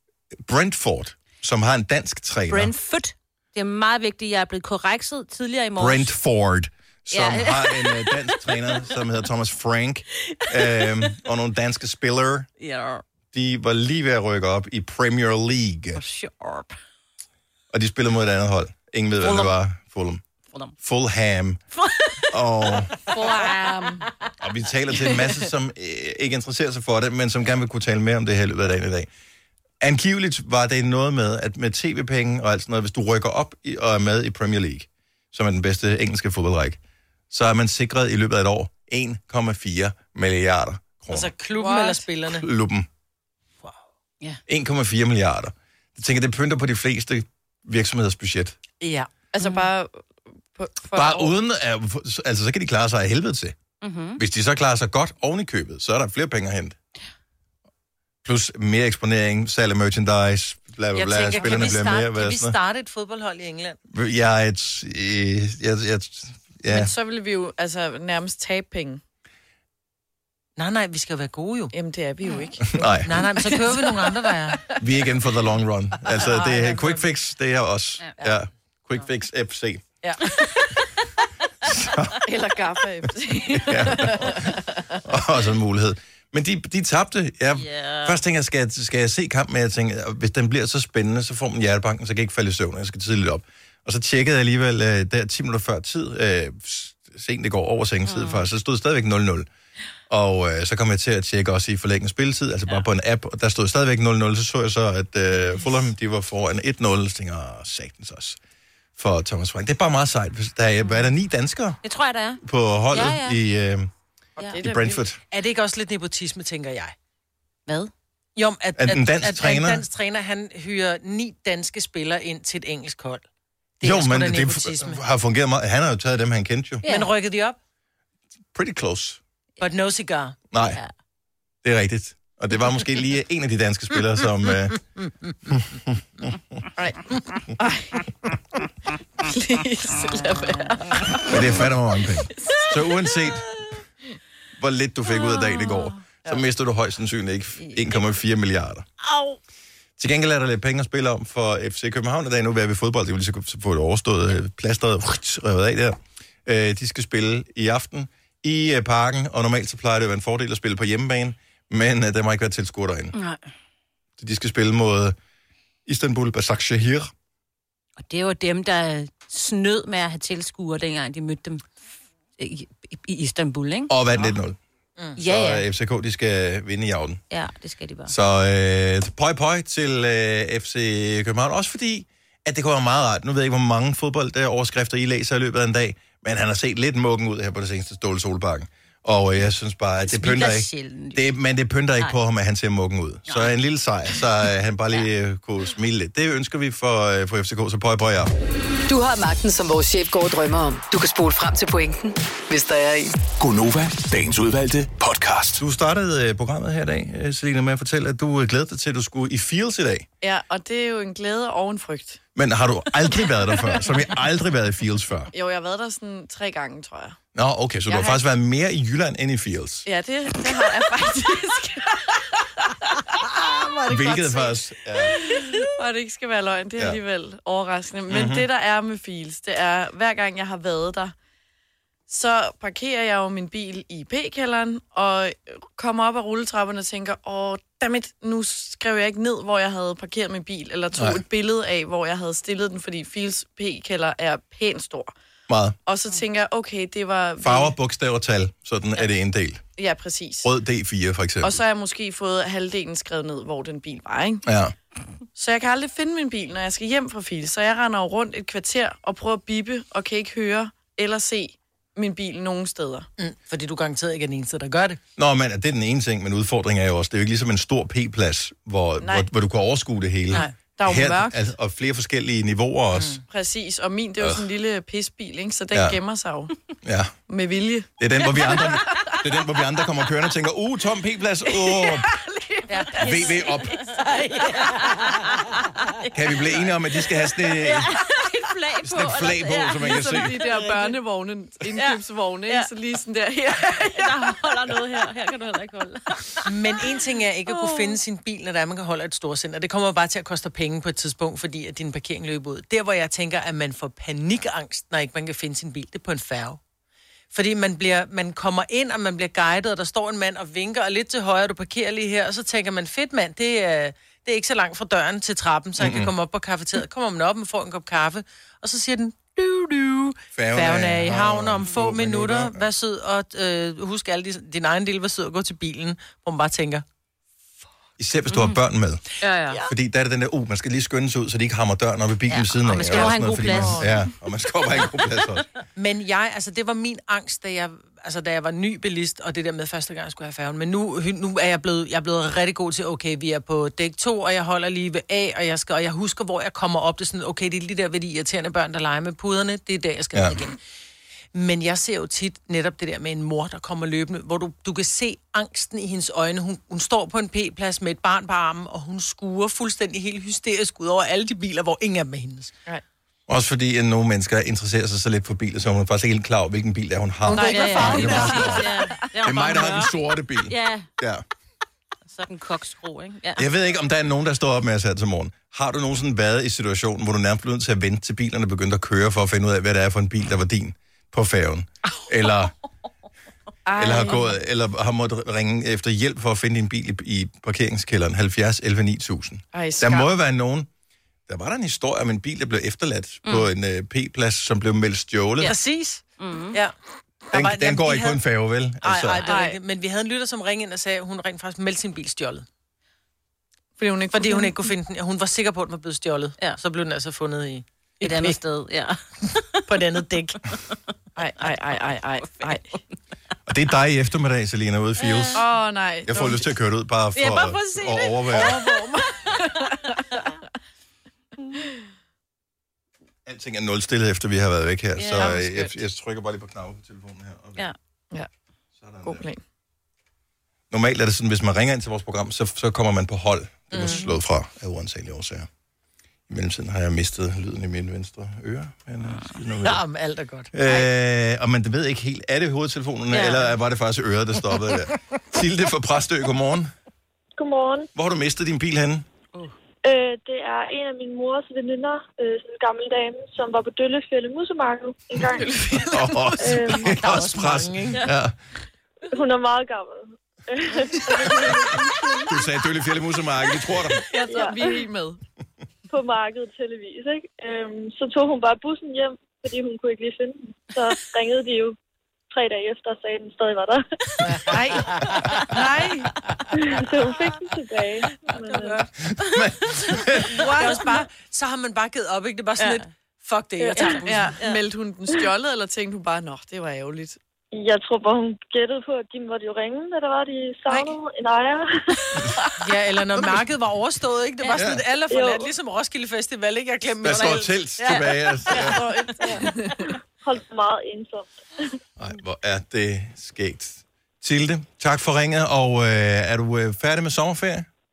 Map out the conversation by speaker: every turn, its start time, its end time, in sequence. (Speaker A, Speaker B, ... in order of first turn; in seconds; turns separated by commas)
Speaker A: 0.4-2.7, Speaker B: 2.5-6.1, Speaker A: 5.8-12.5, Speaker B: 7.1-8.8, Speaker B: 10.5-11.1, Speaker B: 12.6-13.0, Speaker A: 13.3-16.0, Speaker B: 15.9-16.8, Speaker A: 17.7-20.2, Speaker B: 19.2-19.5, Speaker A: 20.8-21.6, Speaker B: 21.8-24.1, Speaker A: 22.3-22.9, Speaker C: 23.1-24.0, Speaker A: 24.4-29.1, Speaker B: 24.9-25.3, Speaker A: 29.8-36.8, Speaker A: 37.3-41.3, Speaker D: 41.1-42.5, Speaker C: 41.6-42.0, Speaker A: 42.3-42.9, Speaker A: 44.5-48.5, Speaker D: 48.8-49.1, Speaker C: 49.3-51.4, Speaker B: 49.4-49.7, Speaker A: 50.9-53.6, Speaker B: 53.8-54.2, Speaker A: 54.2-56.8, Speaker A: 58.2-62.5, Speaker D: 60.9-63.8, Speaker A: 63.9-66.9, Speaker C: 66.7-69.0, Speaker D: 70.6-71.7, Speaker C: 71.7-74.0, Speaker A: 72.6-73.2, Speaker D: 73.0-74.6, Speaker A: 74.8-79.8, Speaker C: 76.2-76.7, Speaker D: 76.4-77.0, Speaker A: 81.6-82.2, Speaker C: 82.2-85.0, Speaker A: 83.5-99.5, Speaker B: 87.5-88.2, Speaker B: 98.0-98.5, Speaker A: 100.1-108.4, Speaker A: 109.0-111.8, Speaker B: 111.8-112.4, Speaker A: 112.4-113.9, Speaker B: 112.9-113.4, Speaker C: 114.4-115.0, Speaker A: 114.6-115.2, Speaker D: 115.3-116.9, Speaker B: 117.7-117.9, Speaker D: 118.3-123.2, Speaker A: 118.8-119.8, Speaker D: 123.8-125.0, Speaker A: 123.8-126.8, Speaker B: 126.8-127.1, Speaker D: 126.9-127.6, Speaker A: 128.5-129.2, Speaker D: 129.6-130.3, Speaker A: 130.5-130.8, Speaker B: 130.6-130.9, Speaker A: 131.6-134.8, Speaker A: 135.5-136.0, Speaker C: 136.8-137.0, Speaker C: 137.6-138.1, Speaker C: 139.2-141.6, Speaker B: 140.5-140.7, Speaker A: 141.3-143.4, Speaker A: 144.6-148.9, Speaker B: 145.2-145.8, Speaker B: 147.6-148.1, Speaker B: 149.1-149.3, Speaker A: 150.0-163.1, Speaker B: 163.1-163.4, Speaker A: 164.2-165.1, Speaker A: 165.8-167.1, Speaker B: 168.0-171.7, Speaker B: 172.4-173.9, Speaker A: 173.9-174.6, Speaker B: 175.2-175.7, Speaker A: 175.2-177.2, Speaker B: 177.3-178.1, Speaker A: 178.1-198.3, Speaker B: 190.0-191.3, Speaker B: 193.2-193.5, Speaker E: 198.9-203.1, Speaker F: 203.4-205.6, Speaker A: 205.6-210.1, Speaker C: 210.2-212.2, Speaker A: 212.3-215.3, Speaker C: 213.5-213.8, Speaker C: 215.3-217.2, Speaker A: 217.3-219.8, Speaker C: 217.9-218.2, Speaker C: 219.8-231.1, Speaker A: 223.8-225.2, Speaker A: 228.1-228.4, Speaker C: 232.1-245.1, Speaker A: 245.5-245.8, Speaker C: 245.8-247.7, Speaker A: 247.4-249.6, Speaker C: 249.8-250.5, Speaker A: 250.4-251.6, Speaker C: 251.4-254.4, Speaker A: 254.4-254.7, Speaker C: 255.3-263.1, Speaker D: 263.2-265.0, Speaker A: 265.2-273.2, Speaker C: 269.0-269.3, Speaker C: 270.8-271.5, Speaker D: 272.9-273.2, Speaker C: 273.3-276.5, Speaker A: 276.8-277.1, Speaker C: 277.3-277.9, Speaker A: 278.0-282.1, Speaker C: 278.4-279.1, Speaker C: 281.5-283.6, Speaker B: 283.0-286.5, Speaker A: 283.0-283.8, Speaker A: 286.1-287.9, Speaker B: 287.5-290.9, Speaker A: 288.8-290.4, Speaker C: 289.8-294.4, Speaker B: 291.7-292.7, Speaker B: 293.9-296.5, Speaker D: 296.4-306.6, Speaker B: 297.5-298.0, Speaker D: 307.3-326.8, Speaker A: 315.8-316.1, Speaker A: 320.3-322.6, Speaker A: 328.0-329.1, Speaker B: 328.3-328.6, Speaker B: 329.2-329.6, Speaker A: 329.7-335.4, Speaker B: 332.3-334.0, Speaker C: 333.6-333.8, Speaker D: 335.8-350.6, Speaker D: 351.3-362.5, Speaker A: 363.3-371.2, Speaker C: 367.2-369.0, Speaker B: 367.3-369.9, Speaker D: 367.8-368.0, Speaker B: 370.5-370.9, Speaker B: 372.1-373.5, Speaker A: 373.4-382.5, Speaker C: 383.6-384.3, Speaker A: 383.8-390.7, Speaker C: 389.5-390.1, Speaker A: 391.3-395.5, Speaker B: 393.2-393.5, Speaker D: 395.4-396.7, Speaker B: 396.2-396.6, Speaker D: 397.3-398.2, Speaker A: 397.3-399.2, Speaker D: 398.8-402.4, Speaker C: 399.3-399.6, Speaker C: 403.8-404.6, Speaker D: 404.1-408.5, Speaker B: 408.0-409.0, Speaker D: 409.7-410.4, Speaker C: 411.1-412.6, Speaker B: 412.2-412.8, Speaker A: 413.5-415.4, Speaker B: 415.0-415.4, Speaker C: 415.3-416.4, Speaker A: 416.1-418.6, Speaker B: 417.1-418.3, Speaker D: 418.3-418.8, Speaker C: 418.6-419.8, Speaker A: 423.2-427.7, Speaker B: 425.0-425.3, Speaker C: 425.1-425.7, Speaker A: 428.7-429.2, Speaker C: 429.0-429.4, Speaker A: 430.7-435.5, Speaker D: 433.7-434.1, Speaker B: 433.9-434.1, Speaker A: 436.3-439.8, Speaker D: 439.6-440.8, Speaker A: 440.5-446.7, Speaker B: 443.1-443.5, Speaker G: 447.4-447.9, Speaker A: 447.9-449.1, Speaker G: 449.8-455.8, Speaker C: 455.3-456.8, Speaker A: 455.9-458.3, Speaker G: 456.4-456.9, Speaker D: 456.8-458.1, Speaker G: 459.1-462.4, Speaker A: 462.3-464.0, Speaker C: 464.1-465.2, Speaker G: 464.3-464.8, Speaker G: 465.9-471.8, Speaker G: 472.3-473.8, Speaker D: 474.3-475.1, Speaker C: 474.4-476.1, Speaker G: 476.5-478.8, Speaker B: 478.3-478.8, Speaker A: 479.1-480.5, Speaker C: 480.3-480.9, Speaker D: 480.6-484.3, Speaker G: 483.6-483.9, Speaker C: 483.8-487.2, Speaker G: 487.5-492.3, Speaker D: 492.6-498.2, Speaker A: 494.5-494.8, Speaker G: 495.1-495.5, Speaker A: 497.0-498.8, Speaker B: 497.9-498.2, Speaker C: 498.5-499.8, Speaker G: 500.2-501.6, Speaker A: 502.0-507.7